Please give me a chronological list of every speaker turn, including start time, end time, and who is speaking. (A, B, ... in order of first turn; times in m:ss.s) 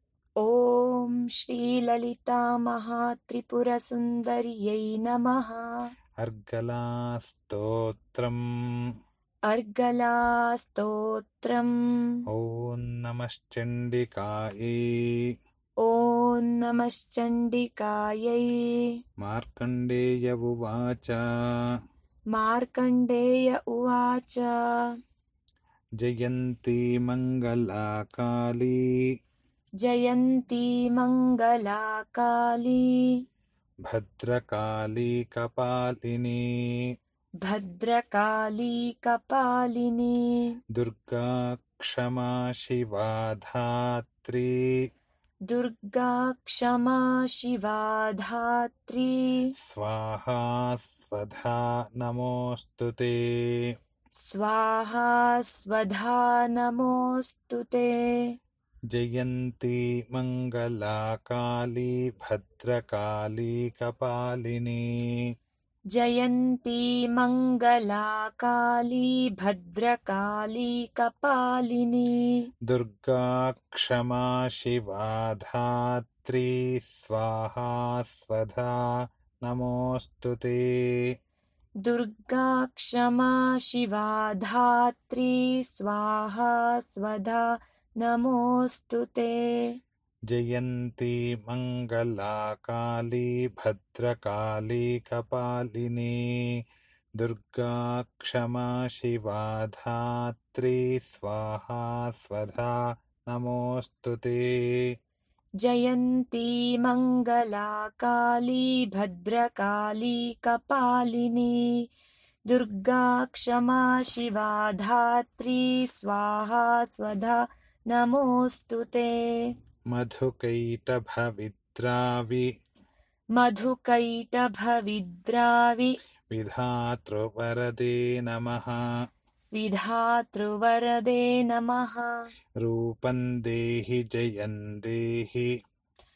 0:00.4-0:05.9 A
0:06.2-0:08.9 B
0:09.5-0:12.2 A
0:12.3-0:15.4 B
0:15.8-0:18.9 A
0:19.2-0:21.8 B
0:22.3-0:24.6 A
0:26.0-0:29.1 B
0:29.8-0:33.2 A
0:33.8-0:36.9 B
0:37.4-0:40.6 A
0:40.7-0:44.9 B
0:45.5-0:49.5 A
0:49.6-0:53.7 B
0:54.2-0:58.3 A
0:58.9-1:05.3 B
1:05.9-1:12.5 A
1:12.7-1:21.2 B
1:21.8-1:29.7 A
1:30.3-1:36.6 B
1:37.2-1:44.9 B
1:45.6-1:51.8 A
1:52.5-1:57.4 A
1:57.9-1:59.5 A
1:59.9-2:02.5 B
2:03.4-2:05.9 A
2:06.3-2:08.9 B
2:09.5-2:12.1 A
2:12.6-2:15.6 B